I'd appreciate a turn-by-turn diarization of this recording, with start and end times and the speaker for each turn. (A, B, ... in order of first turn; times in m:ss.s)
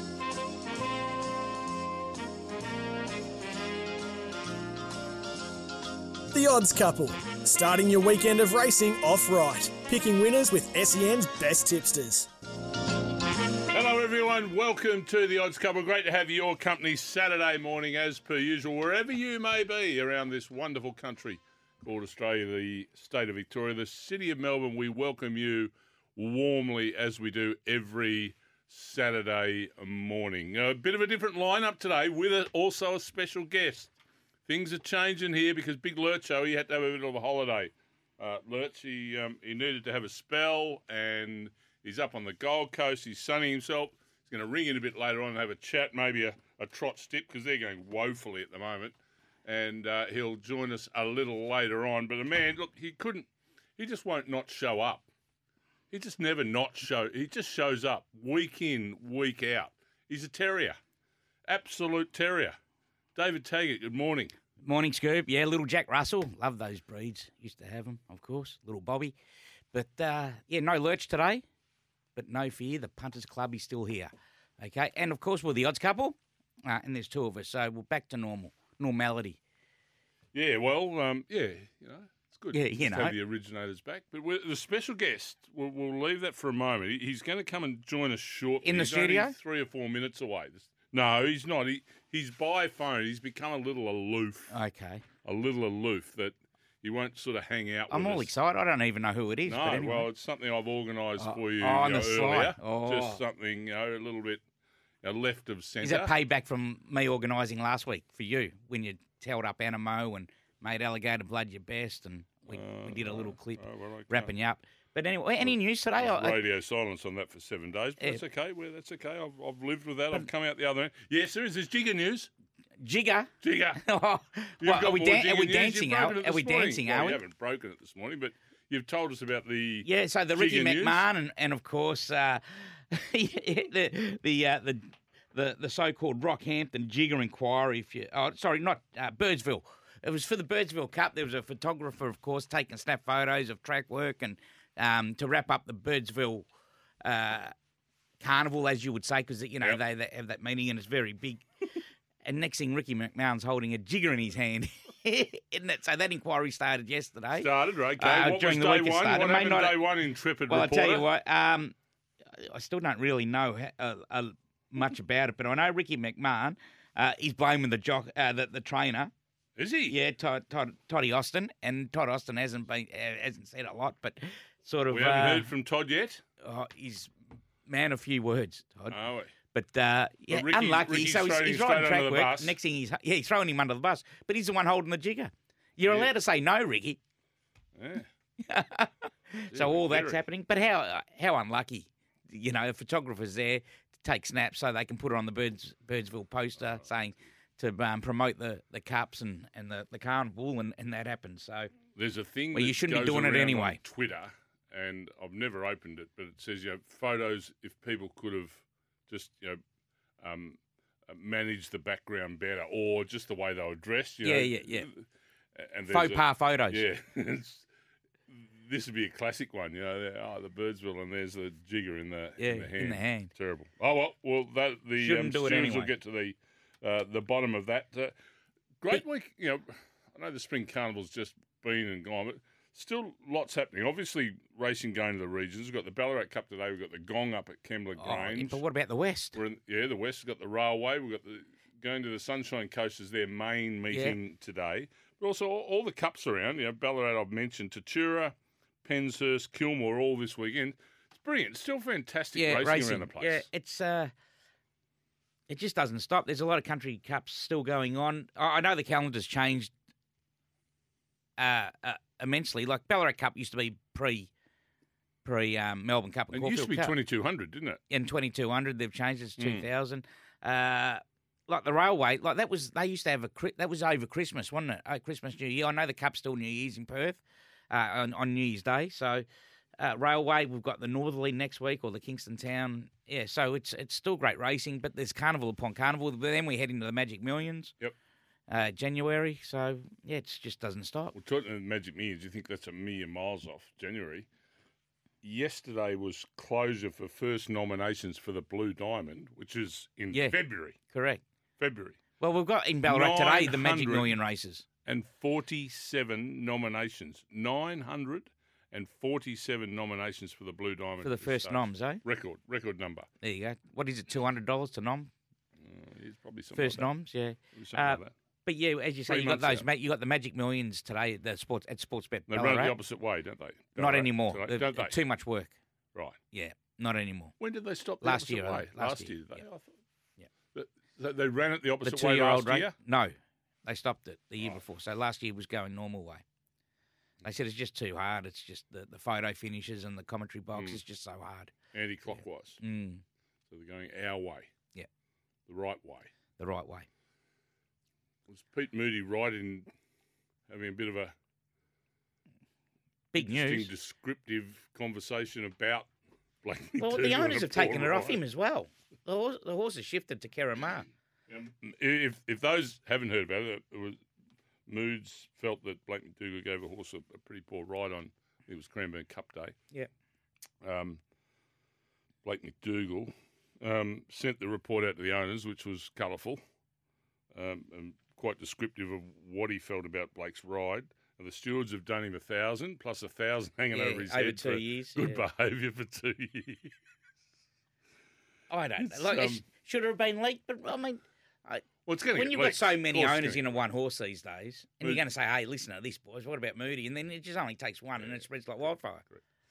0:06.3-0:12.3 A
0:13.7-0:33.9 B
0:34.5-0:55.0 B
0:55.9-1:00.8 B
1:01.5-1:02.6 B
1:03.2-1:04.3 B
1:04.6-1:09.2 C
1:09.7-1:11.4 C
1:12.2-1:19.4 C
1:20.3-1:34.5 B
1:22.5-1:23.2 C
1:28.6-1:29.3 C
1:34.5-1:35.0 C
1:35.2-1:38.3 B
1:37.9-1:40.1 C
1:39.5-1:44.4 B
1:41.2-1:43.2 C
1:45.0-1:46.1 B
1:45.8-1:56.4 C
1:52.5-1:54.3 B
1:55.4-2:02.3 B
2:02.8-2:03.3 C
2:03.4-2:03.8 B
2:03.8-2:07.2 C
2:04.6-2:11.1 B
2:09.8-2:26.5 C
2:27.0-2:27.5 C
2:28.2-2:31.4 C
2:32.2-2:37.5 C
2:37.3-2:41.1 B
2:38.0-2:39.8 C
2:40.5-2:41.8 C
2:42.3-2:49.1 C
2:49.6-2:50.0 B
2:49.9-2:55.5 C
2:54.9-2:56.2 B
2:56.4-2:57.1 C
2:57.7-2:59.0 C
2:58.9-2:59.3 B
2:59.5-3:07.0 C
3:00.3-3:02.5 B
3:05.8-3:06.1 B
3:07.8-3:08.1 B
3:08.4-3:21.7 C
3:09.5-3:10.2 B
3:21.9-3:29.6 B
3:22.5-3:23.8 C
3:30.2-3:35.0 B
3:34.2-3:34.9 C
3:35.6-3:37.6 B
3:35.9-3:36.8 C
3:38.3-3:48.1 B
3:42.4-3:43.3 C
3:45.0-3:45.9 C
3:48.8-3:58.6 B
3:58.0-3:59.4 C
3:59.4-4:13.4 B
4:03.9-4:04.2 C
4:12.3-4:14.1 C
4:15.5-4:19.7 C
4:21.4-4:24.3 C
4:25.2-4:26.9 C
4:26.3-4:27.8 B
4:27.9-4:39.2 C
4:29.4-4:29.6 B
4:39.8-4:47.7 C
4:48.5-4:51.1 C
4:51.1-4:54.2 B
4:55.2-5:00.8 B
5:00.1-5:01.2 C
5:01.6-5:02.0 B
5:02.2-5:04.6 C
5:02.9-5:04.1 B
5:04.9-5:13.1 B
5:11.0-5:12.0 C
5:13.2-5:15.1 C
5:15.6-5:16.9 B
5:16.6-5:22.8 C
5:17.5-5:18.1 B
5:19.1-5:19.7 B
5:22.3-5:25.0 B
5:23.8-5:25.6 C
5:26.3-5:27.3 C
5:27.4-5:29.7 B
5:28.0-5:29.4 C
5:30.5-5:32.7 B
5:31.8-5:36.2 C
5:37.2-5:41.5 C
5:40.6-5:40.8 B
5:41.7-5:42.6 B
5:42.1-5:43.0 C
5:43.5-5:44.5 B
5:45.5-5:46.1 B
5:46.4-5:46.9 C
5:48.3-5:49.7 B
5:50.5-5:51.1 B
5:53.1-5:53.7 C
5:53.2-5:55.9 B
5:56.4-5:58.2 B
5:56.8-6:00.9 C
6:01.3-6:04.0 B
6:04.7-6:09.6 B
6:10.6-6:11.0 B
6:12.2-6:16.4 B
6:17.3-6:26.7 B
6:23.7-6:25.2 C
6:28.5-6:39.0 C
6:28.8-6:29.4 B
6:31.9-6:33.6 B
6:38.0-6:39.2 B